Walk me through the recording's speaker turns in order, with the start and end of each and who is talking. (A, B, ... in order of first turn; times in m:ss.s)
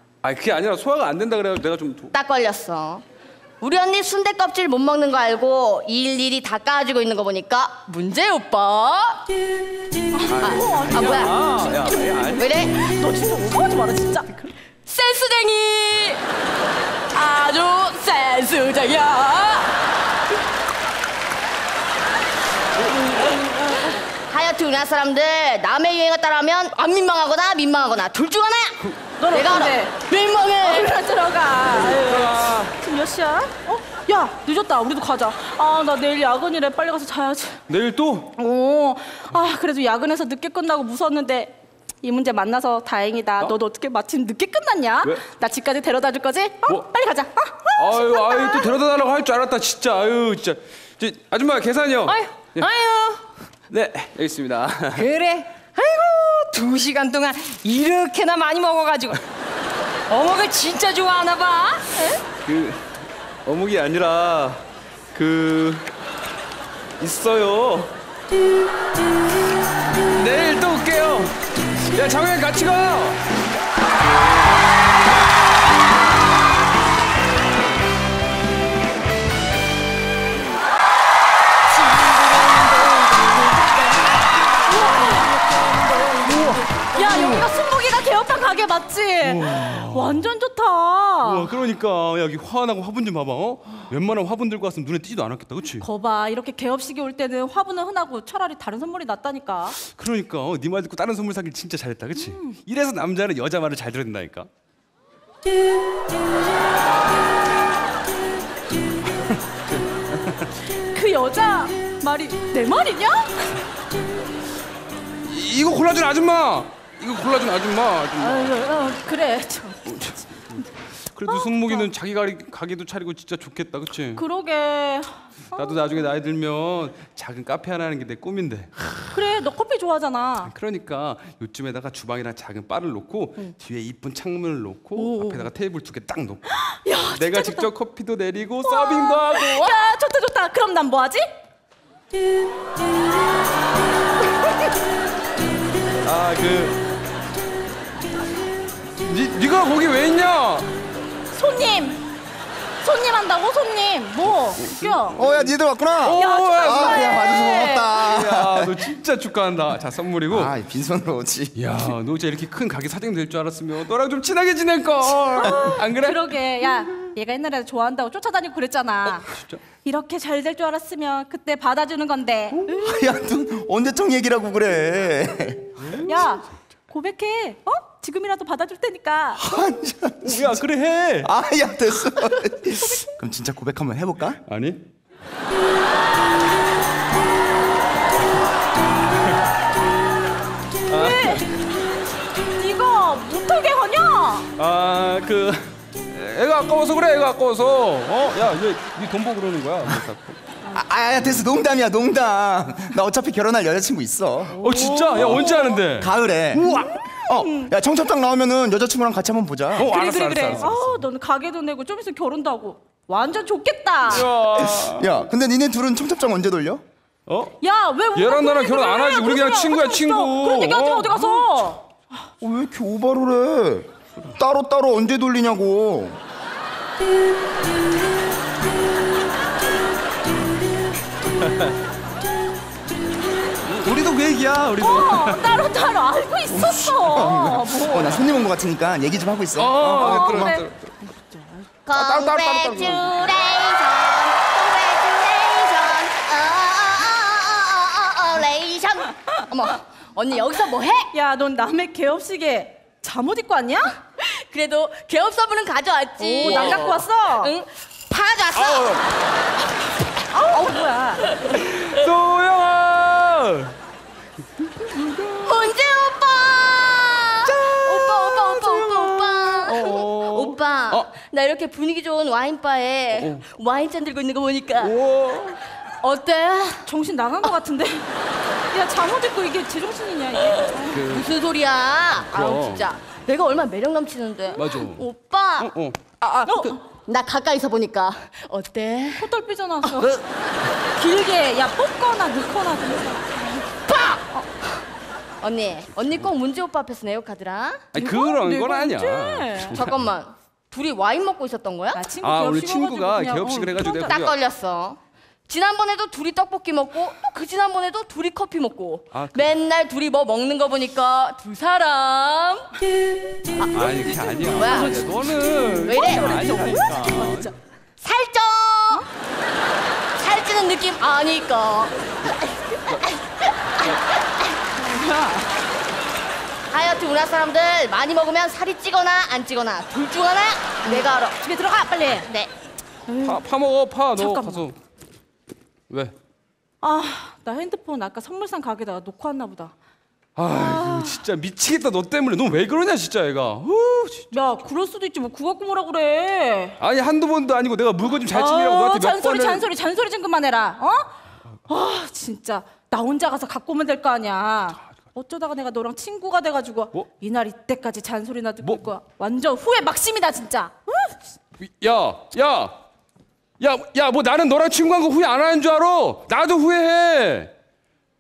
0:00.2-0:02.1 A
0:02.1-0:03.0 B
0:03.6-0:09.2 B
0:10.2-0:11.3 C
0:10.3-0:12.5 A
0:10.4-0:11.3 B
0:11.8-0:14.4 C
0:12.4-0:12.8 B
0:14.9-0:16.2 B
0:17.1-0:19.8 B
0:24.1-0:31.0 B
0:29.2-0:30.0 C
0:30.6-0:37.6 C
0:31.8-0:32.7 A
0:37.7-0:38.3 A
0:38.4-0:48.8 C
0:47.8-0:52.7 A
0:52.8-0:53.2 D
0:53.7-0:55.1 A
0:55.2-0:59.2 D
1:00.2-1:01.8 D
1:02.0-1:02.2 C
1:02.4-1:02.9 A
1:03.5-1:05.9 A
1:07.0-1:08.0 A
1:10.1-1:13.2 A
1:24.6-1:25.4 C
1:26.2-1:26.7 A
1:26.9-1:31.5 C
1:29.2-1:30.2 A
1:31.2-1:35.9 A
1:35.8-1:39.8 C
1:39.9-1:44.5 A
1:50.2-1:50.5 A
1:50.8-1:53.6 C
1:55.2-1:58.6 A
1:58.2-2:00.6 C
1:59.9-2:04.2 A
2:01.2-2:01.9 C
2:04.2-2:06.0 C
2:05.5-2:08.9 A
2:09.1-2:10.5 C
2:10.4-2:16.5 A
2:15.0-2:15.5 C
2:16.7-2:17.7 C
2:17.0-2:19.8 A
2:18.6-2:21.3 C
2:26.0-2:26.8 A
2:29.0-2:30.7 A
2:31.3-2:32.0 C
2:32.8-2:35.2 C
2:34.6-2:37.2 A
2:35.2-2:38.9 E
2:36.1-2:38.0 C
2:38.0-2:40.5 A
2:40.3-2:41.9 E
2:41.6-2:46.9 A
2:45.3-2:49.3 C
2:49.3-2:49.6 A
2:49.8-2:52.9 C
2:52.7-2:55.8 E
2:55.8-2:56.4 A
2:56.0-2:59.4 C
2:59.4-3:00.6 E
3:00.2-3:01.3 A
3:01.2-3:04.4 E
3:04.5-3:04.8 A
3:10.9-3:11.5 A
3:10.9-3:11.5 C
3:12.4-3:14.5 C
3:14.6-3:20.4 A
3:20.7-3:29.9 E
3:24.6-3:27.0 A
3:24.7-3:25.8 C
3:27.3-3:27.7 C
3:29.8-3:31.0 A
3:29.8-3:34.3 C
3:34.1-3:35.1 A
3:34.4-3:36.8 E
3:37.3-3:37.6 A
3:37.6-3:41.8 C
3:38.1-3:41.8 A
3:42.4-3:46.2 E
3:51.4-3:51.7 A
3:53.7-3:55.5 A
3:54.8-3:58.0 C
3:56.5-4:00.6 E
3:57.6-3:58.2 A
3:59.6-4:01.0 A
4:00.0-4:00.6 C
4:01.9-4:11.1 B
4:01.9-4:03.3 A
4:11.1-4:14.0 C
4:14.2-4:19.0 B
4:16.2-4:17.5 C
4:16.4-4:17.1 A
4:18.5-4:19.1 A
4:20.3-4:21.2 C
4:21.4-4:23.8 A
4:24.8-4:25.7 A
4:25.4-4:35.0 B
4:27.4-4:31.1 A
4:33.1-4:33.4 A
4:34.8-4:35.6 A
4:36.0-4:36.9 B
4:36.8-4:38.1 C
4:38.7-4:41.0 C
4:40.9-4:41.3 A
4:40.9-4:45.7 B
4:42.2-4:43.0 A
4:44.5-4:45.1 A
4:45.6-4:46.8 A
4:46.5-4:46.8 C
4:46.8-4:49.3 B
4:49.2-4:50.2 C
4:50.9-4:53.6 C
4:53.9-4:54.5 B
4:55.4-4:57.9 B
4:57.9-5:00.0 A
4:58.0-4:59.9 C
4:59.6-5:02.0 B
5:01.9-5:04.2 C
5:02.2-5:04.3 A
5:03.8-5:12.7 B
5:09.1-5:09.6 A
5:13.6-5:15.0 B
5:13.7-5:17.5 A
5:15.6-5:17.5 C
5:15.8-5:16.8 B
5:18.0-5:19.1 B
5:20.2-5:24.6 B
5:24.8-5:25.5 C
5:26.7-5:31.4 B
5:30.8-5:32.3 C
5:33.1-5:33.4 C
5:33.2-5:34.8 A
5:34.2-5:34.7 C
5:36.8-5:39.7 C
5:40.4-5:44.3 A
5:40.5-5:41.2 C
5:44.3-5:46.8 C
5:46.8-5:49.7 A
5:48.2-5:51.2 C
5:51.7-6:01.2 C
6:01.6-6:02.7 A
6:03.6-6:07.5 A